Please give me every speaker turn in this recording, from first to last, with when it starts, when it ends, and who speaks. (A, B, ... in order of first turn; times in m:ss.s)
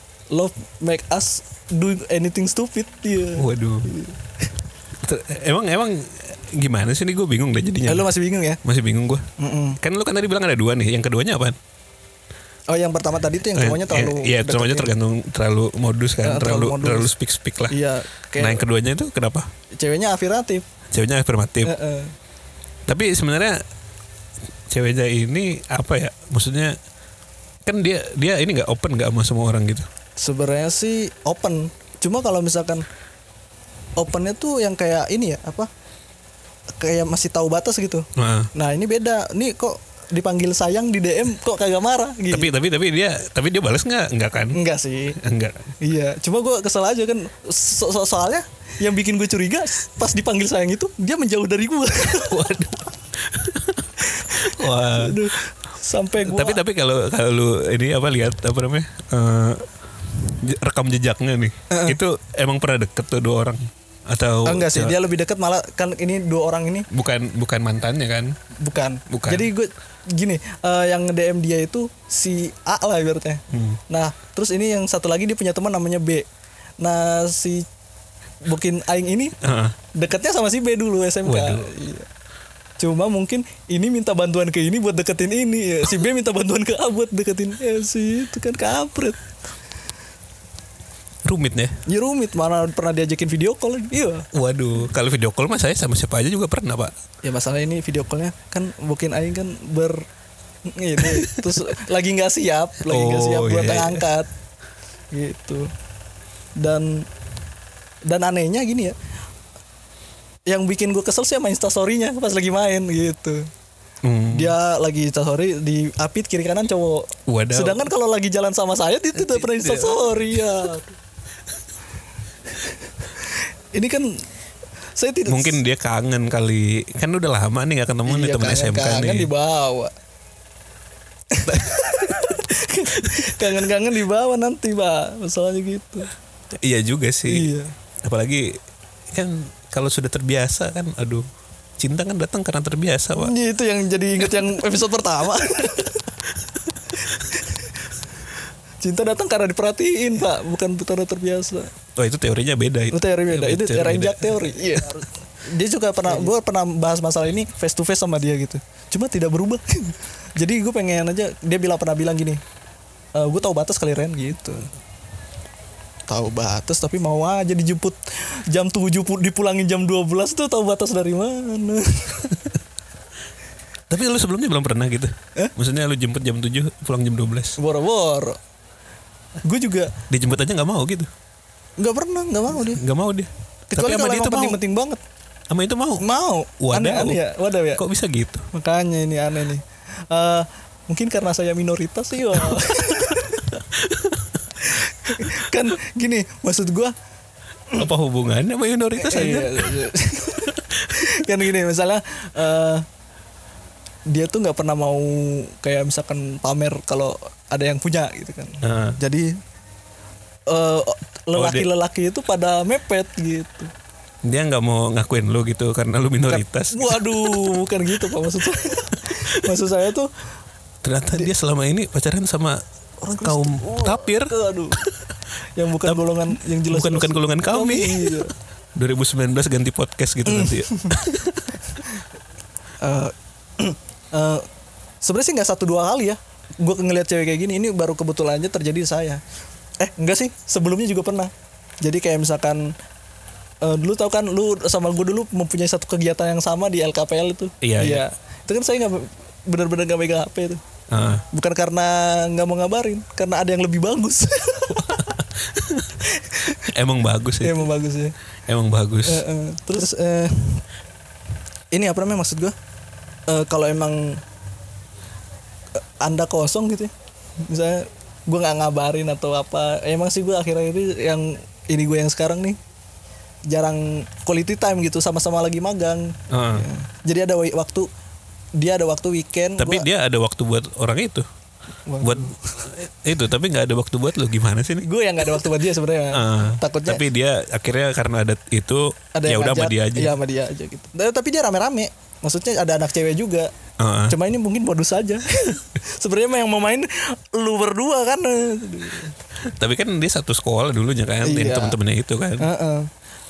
0:00.3-0:04.2 A
0:03.4-0:03.9 B
0:05.0-0:08.1 B
0:07.9-0:08.6 A
0:08.6-0:09.2 B
0:09.4-0:09.8 A
0:09.8-0:11.6 B
0:12.7-0:14.9 A
0:13.5-0:17.8 B
0:16.2-0:17.1 A
0:17.7-0:18.6 A
0:18.4-0:19.5 B
0:19.8-0:20.7 A
0:20.9-0:21.7 B
0:21.6-0:22.2 A
0:22.9-0:23.6 B
0:24.7-0:26.8 B
0:27.7-0:29.9 B
0:30.2-0:32.8 A
0:34.0-0:35.7 A
0:36.8-0:42.5 A
0:38.2-0:38.5 B
0:42.3-0:44.6 B
0:44.5-0:45.2 A
0:45.2-0:45.7 B
0:45.8-0:52.6 A
0:52.2-0:55.2 B
0:54.1-0:56.6 A
0:56.2-1:05.0 B
1:01.7-1:02.0 A
1:04.4-1:06.9 A
1:06.9-1:08.3 B
1:08.6-1:16.3 A
1:09.1-1:09.5 B
1:13.5-1:13.8 B
1:16.8-1:17.7 A
1:18.5-1:19.4 A
1:19.4-1:19.8 B
1:19.9-1:22.1 A
1:21.2-1:21.7 B
1:22.8-1:29.2 A
1:31.2-1:31.8 B
1:31.9-1:34.3 A
1:34.3-1:36.9 B
1:37.2-1:40.0 A
1:40.7-1:44.3 A
1:41.0-1:41.4 B
1:42.9-1:44.1 B
1:45.1-1:45.7 A
1:46.6-1:47.1 A
1:48.1-1:49.0 A
1:50.5-1:53.5 A
1:54.0-1:54.6 B
1:54.3-2:01.0 A
1:57.3-1:57.9 B
1:59.2-2:00.2 B
2:02.5-2:04.2 A
2:05.0-2:05.6 A
2:05.3-2:09.3 B
2:08.1-2:09.9 A
2:11.3-2:16.1 A
2:13.0-2:13.4 B
2:16.5-2:17.5 B
2:17.3-2:17.7 A
2:18.0-2:18.5 B
2:19.1-2:21.2 B
2:21.8-2:23.3 B
2:23.2-2:26.1 A
2:27.1-2:28.0 A
2:28.8-2:31.7 A
2:32.0-2:34.9 B
2:32.9-2:42.4 A
2:43.2-2:44.7 A
2:46.1-2:52.4 A
2:53.9-2:57.6 B
2:57.6-2:58.4 A
2:59.4-2:59.9 A
3:00.1-3:01.1 B
3:01.8-3:02.8 A
3:02.6-3:04.6 B
3:03.7-3:05.0 A
3:05.5-3:06.0 B
3:06.0-3:07.8 A
3:06.6-3:07.2 B
3:07.7-3:08.5 B
3:08.5-3:13.6 A
3:13.6-3:14.4 B
3:14.6-3:16.9 A
3:17.8-3:19.8 B
3:19.0-3:22.8 A
3:20.5-3:21.3 B
3:24.1-3:29.3 A
3:28.6-3:29.0 B
3:30.5-3:33.7 A
3:31.3-3:31.7 B
3:34.2-3:38.1 B
3:36.3-3:40.1 A
3:38.6-3:39.4 B
3:40.8-3:42.6 B
3:43.0-3:44.8 A
3:43.2-3:45.1 B
3:45.6-3:48.3 A
3:46.7-3:51.8 B
3:50.3-3:50.9 A
3:52.8-3:54.4 A
3:55.0-3:59.2 A
3:59.8-4:01.3 A
4:01.8-4:02.6 A
4:03.6-4:10.6 A
4:07.6-4:08.0 B
4:10.9-4:11.2 B
4:11.3-4:15.2 A
4:15.0-4:16.0 B
4:16.0-4:16.7 A
4:16.6-4:17.7 B
4:17.4-4:18.2 A
4:18.5-4:19.2 B
4:19.1-4:20.6 A
4:21.7-4:22.5 A
4:23.3-4:24.2 A
4:25.8-4:26.9 A
4:27.4-4:32.6 A
4:33.5-4:37.9 A
4:36.3-4:36.7 B
4:38.6-4:39.9 A
4:39.6-4:41.3 B
4:41.9-4:42.5 A
4:42.0-4:44.9 B
4:44.8-4:47.0 A
4:46.1-4:50.2 B
4:49.2-4:53.5 A
4:53.8-4:54.2 B
4:54.1-4:59.1 A
4:59.4-5:02.4 B
5:01.2-5:01.8 A
5:02.4-5:02.9 A